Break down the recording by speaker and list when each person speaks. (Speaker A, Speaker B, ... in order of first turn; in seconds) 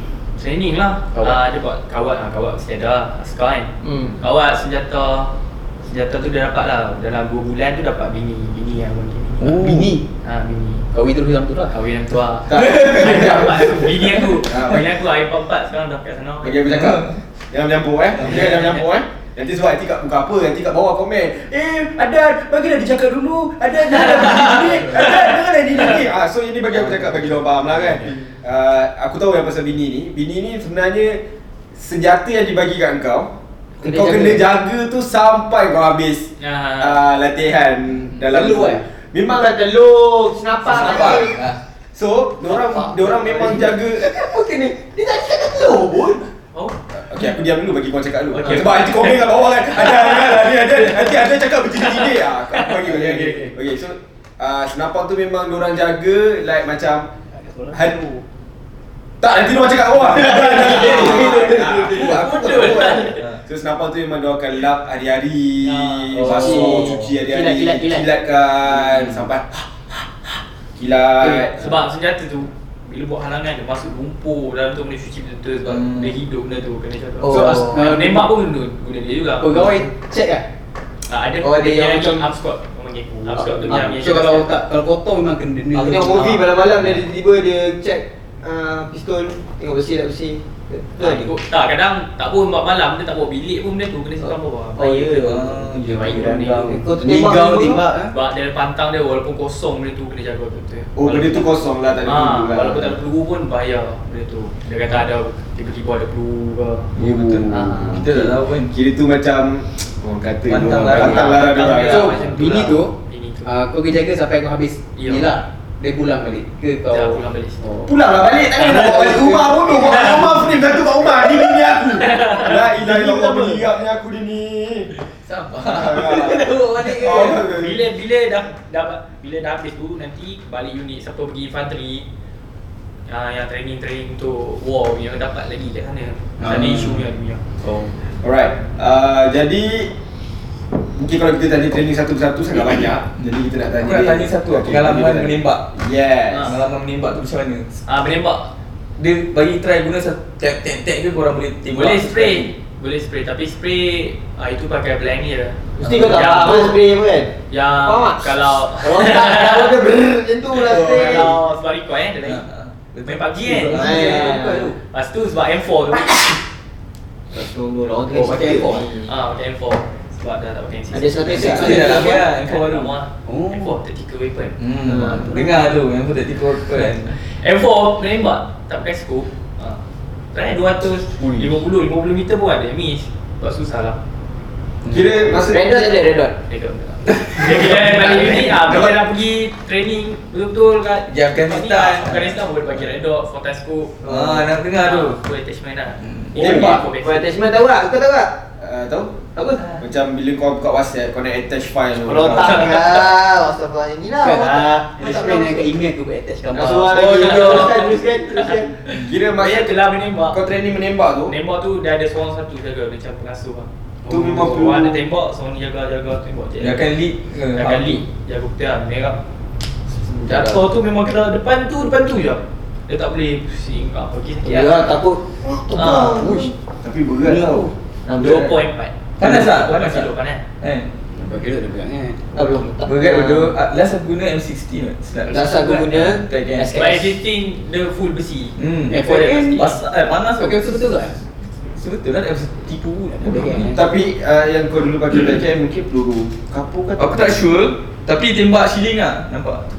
Speaker A: 0.4-5.3, 5.8-10.9, 11.7-16.6, 18.2-18.8, 23.9-25.4, 36.4-37.0, 48.3-50.8, 51.8-52.8, 60.7-63.2, 65.6-66.7, 71.5-79.8, 81.1-84.5, 86.1-86.5, 91.0-96.8, 98.1-101.5, 102.0-106.9, 107.5-108.0, 110.7-113.6, 114.9-115.3, 116.9-117.6, 118.5-122.7, 127.0-132.1, 133.1-137.4, 146.3-146.6, 147.9-148.5, 151.7-156.8, 157.5-159.8, 160.6-162.4, 163.0-166.4, 169.0-174.6, 177.2-179.8, 180.3-184.0, 186.4-194.1, 194.7-197.3, 202.4-203.1, 206.8-208.6, 209.3-210.4, 211.2-216.9, 217.5-219.2, 220.2-225.0, 225.7-226.3, 228.1-230.4, 235.4-235.8, 236.7-239.8
Speaker B: 1.1-1.4, 9.4-10.1, 10.9-11.7, 26.9-27.1, 33.9-34.4, 38.3-38.8, 52.8-53.5, 57.4-57.9, 60.1-62.2, 77.3-78.3, 79.4-80.4, 83.4-86.5, 96.0-98.1, 111.7-112.9, 113.4-117.8, 125.8-127.5, 136.4-137.0, 168.1-169.0, 173.2-173.8, 204.2-207.5, 214.1-214.4, 231.1-232.6, 238.9-239.6, 240.3-241.2, 243.1-243.8
Speaker C: 3.8-4.2, 33.8-34.4, 38.3-38.8, 39.3-41.4, 42.5-46.2, 60.3-61.6, 66.3-68.1, 77.2-77.8, 81.4-82.3, 83.3-83.8, 85.7-91.3, 94.2-97.9, 122.8-123.6, 155.8-157.3, 157.8-161.3, 163.7-164.7, 167.3-169.1, 170.9-172.2, 174.8-175.4, 185.5-186.4, 188.0-188.4, 194.0-194.5, 196.4-198.4, 199.3-199.6, 202.0-205.7, 206.5-208.7, 224.4-226.5, 228.1-228.6, 232.3-233.6, 235.2-237.2
Speaker D: 12.5-15.0, 16.4-39.6, 40.8-41.3, 41.9-44.0, 47.0-57.1, 57.7-58.0, 59.2-71.8, 100.9-103.0, 107.0-112.2, 117.8-124.9, 125.6-127.8, 138.2-139.9, 140.9-146.6, 171.3-171.8, 184.9-186.1, 188.6-189.0, 196.4-196.8, 198.6-202.9, 207.0-207.4, 208.9-211.3, 214.1-215.0, 226.8-227.7, 243.7-247.4
Speaker E: 16.7-17.1, 40.7-41.6, 66.3-66.8, 75.7-76.1, 95.2-96.8, 107.0-108.7, 110.5-111.7, 125.2-126.4, 136.4-136.8, 143.8-145.7, 146.4-147.8, 149.0-152.5, 155.8-156.3, 160.7-161.3, 162.2-164.4, 171.3-172.9, 174.6-177.2, 184.8-185.1, 191.1-192.8, 194.0-195.2, 196.0-196.7, 216.6-218.0, 229.2-230.9, 232.8-236.8, 238.6-240.9, 241.7-243.8, 247.0-249.7